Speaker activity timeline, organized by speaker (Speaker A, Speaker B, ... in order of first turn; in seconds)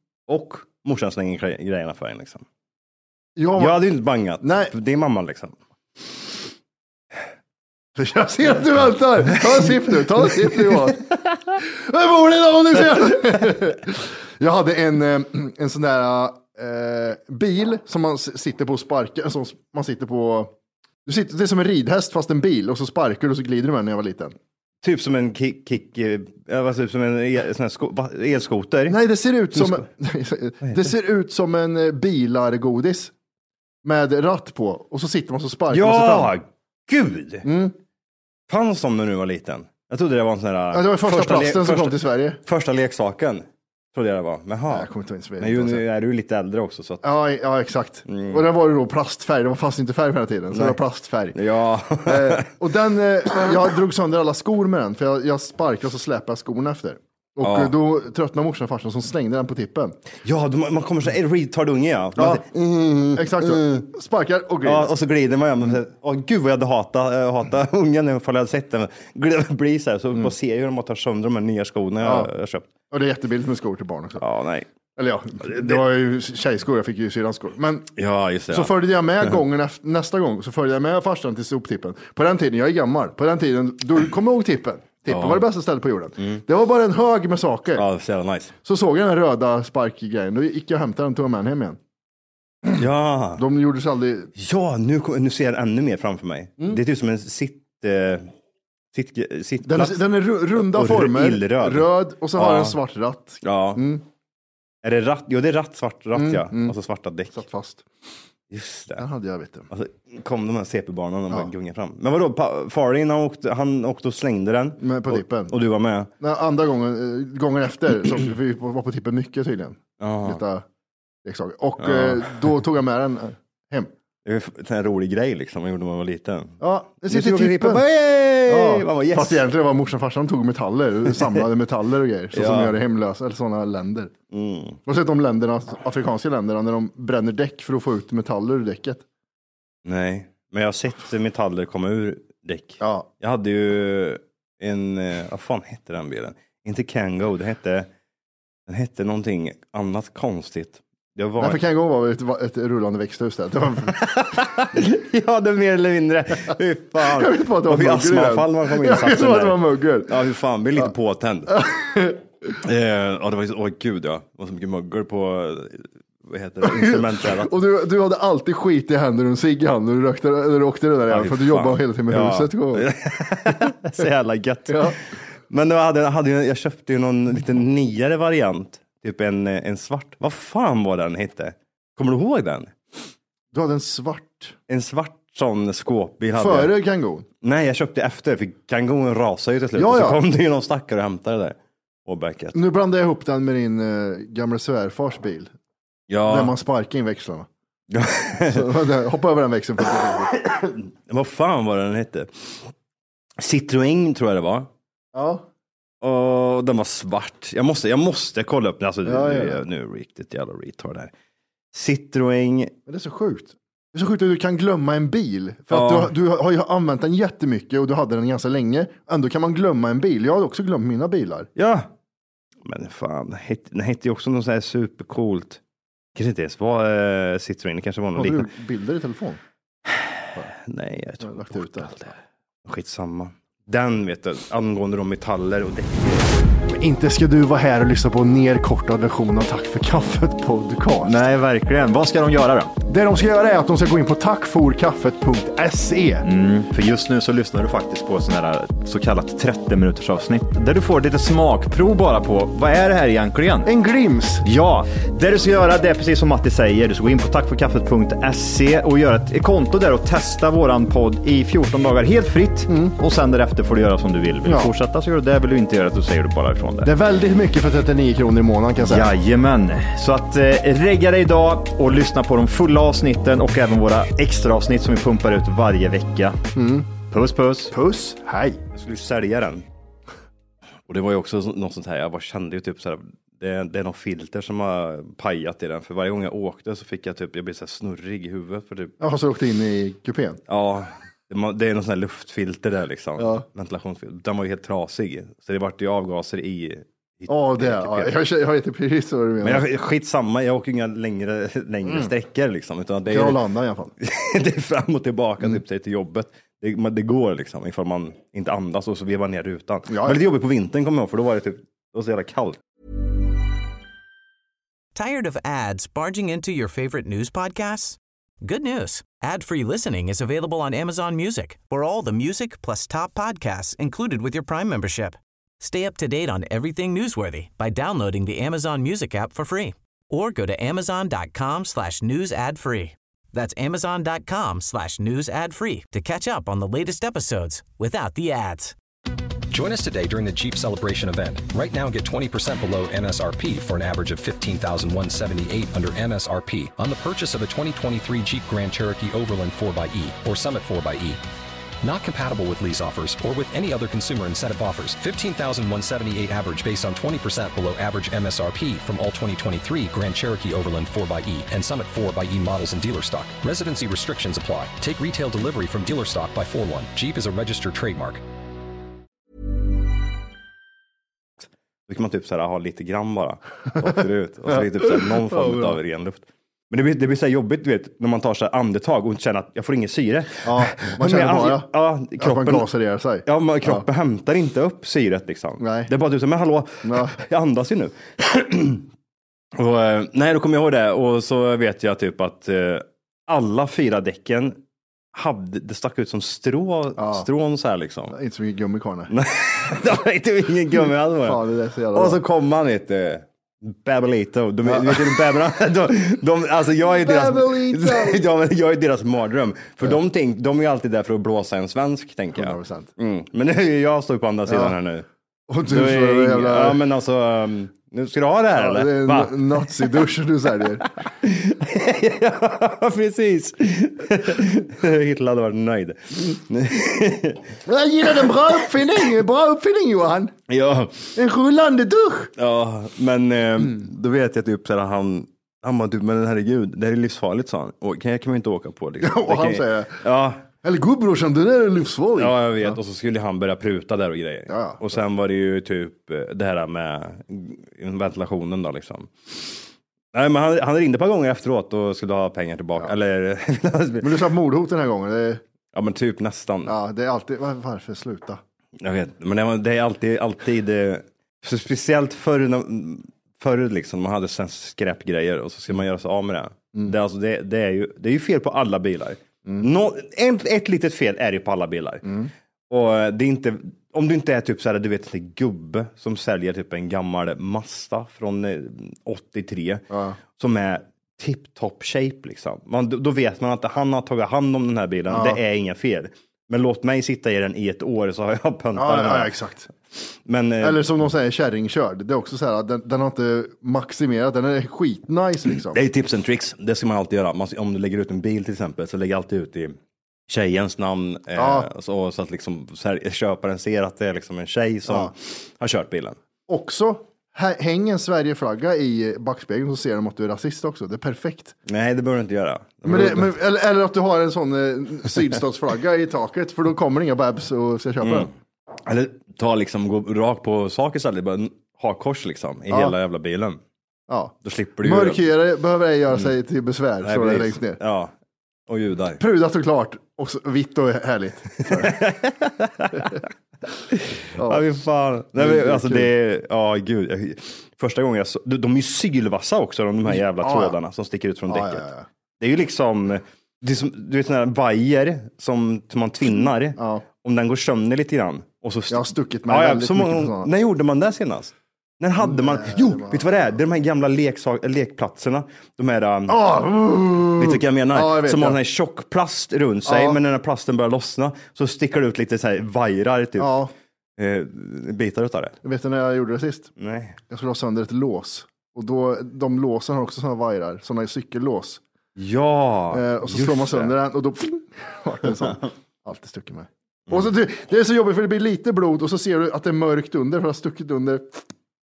Speaker A: 0.3-2.5, 3.6-5.6, 24.8-29.0, 29.5-29.9, 35.7-37.5, 38.5-47.0, 48.1-48.4, 50.5-50.8, 51.3-52.5, 57.4-57.8, 60.2-63.9, 64.6-72.7, 74.2-74.7, 75.5-75.8, 78.0-79.4, 85.1-85.4, 87.7-88.5, 92.7-93.5, 94.4-98.3, 98.9-100.0, 100.5-102.8, 103.4-103.8, 104.8-107.4, 108.5-109.0, 109.7-116.1, 120.0-120.4, 121.8-122.3, 124.2-126.6, 127.1-129.4, 132.3-132.8, 134.3-134.8, 139.8-147.9, 148.7-151.6, 153.9-161.6, 162.6-167.5, 171.1-175.0, 175.5-182.7, 184.7-186.7, 187.4-192.6, 196.1-196.5, 197.9-198.7, 200.3-202.6, 203.4-204.7, 206.0-211.1, 211.7-212.7, 215.7-216.1, 221.6-221.9, 222.6-225.6, 226.2-228.5, 229.9-236.3, 278.7-279.7, 280.9-288.9, 290.5-298.1, 299.4-303.4, 304.0-312.6, 371.9-382.7, 383.3-388.9, 389.5-394.6, 395.1-398.1, 399.1-401.4, 401.9-415.1, 415.7-419.9, 421.1-427.4, 430.5-431.1, 432.4-440.4, 442.2-449.6, 450.1-454.2, 455.7-456.7, 458.8-472.0, 472.7-479.8, 480.4-489.3, 490.2-490.8, 495.5-499.8, 500.3-506.2, 511.7-513.3, 518.0-523.6, 524.5-525.2, 527.0-528.1, 528.7-529.2, 531.6-533.2, 533.9-541.9, 542.4-556.4, 557.4-563.5, 564.2-565.6, 566.8-567.2, 572.2-573.9
Speaker B: 3.4-3.8, 4.4-4.7, 8.0-20.5, 21.1-24.4, 28.9-33.1, 33.8-36.3, 37.5-37.7, 40.7-42.4, 44.7-45.8, 47.0-51.4, 52.0-60.0, 62.2-62.5, 63.1-64.9, 72.0-72.3, 72.9-74.2, 75.0-77.9, 78.5-87.8, 88.7-91.8, 93.4-94.3, 99.7-104.0, 106.1-106.8, 107.3-107.8, 109.0-109.7, 114.8-115.5, 116.2-120.6, 121.2-123.9, 126.6-127.8, 128.4-134.1, 134.9-139.0, 142.8-143.1, 151.4-154.0, 157.0-160.2, 161.5-162.2, 166.6-172.9, 174.7-175.0, 183.5-184.6, 186.4-187.3, 189.8-190.2, 192.5-195.5, 196.3-197.5, 198.5-200.4, 205.1-205.4, 209.1-209.6, 212.9-221.5, 228.2-229.4, 231.2-232.1, 236.7-241.2, 242.9-246.2, 253.7-254.4, 262.7-262.9, 264.4-264.7, 266.9-269.1, 276.6-276.9, 277.7-278.6, 289.0-290.4, 293.2-293.4, 297.3-299.7, 301.9-302.1, 303.1-303.9, 309.9-310.2, 374.5-375.8, 380.4-383.9, 385.6-385.9, 386.8-387.2, 397.0-397.3, 398.1-399.1, 401.2-402.2, 404.7-405.2, 406.9-408.2, 412.3-412.9, 414.5-414.8, 415.5-416.8, 418.6-420.9, 427.7-430.3, 431.1-432.3, 439.0-440.0, 440.6-442.8, 444.5-444.8, 454.0-455.4, 456.7-458.4, 472.1-472.3, 479.9-480.2, 485.1-485.4, 488.8-489.7, 490.6-495.8, 501.4-501.7, 504.9-505.1, 506.5-511.6, 512.8-518.3, 522.7-523.0, 524.1-527.8, 529.2-532.1, 534.4-534.8, 535.4-536.1, 540.1-540.8, 541.5-542.1, 546.8-547.0, 548.9-550.5, 552.2-553.4, 556.3-558.6, 559.9-560.2, 563.4-563.7, 565.6-566.7, 567.3-571.8, 572.9-581.2
Speaker C: 241.0-242.7, 246.2-253.7, 254.4-266.9, 268.8-276.4, 277.1-277.7
Speaker D: 314.9-338.8
Speaker E: 339.5-351.2, 351.8-368.2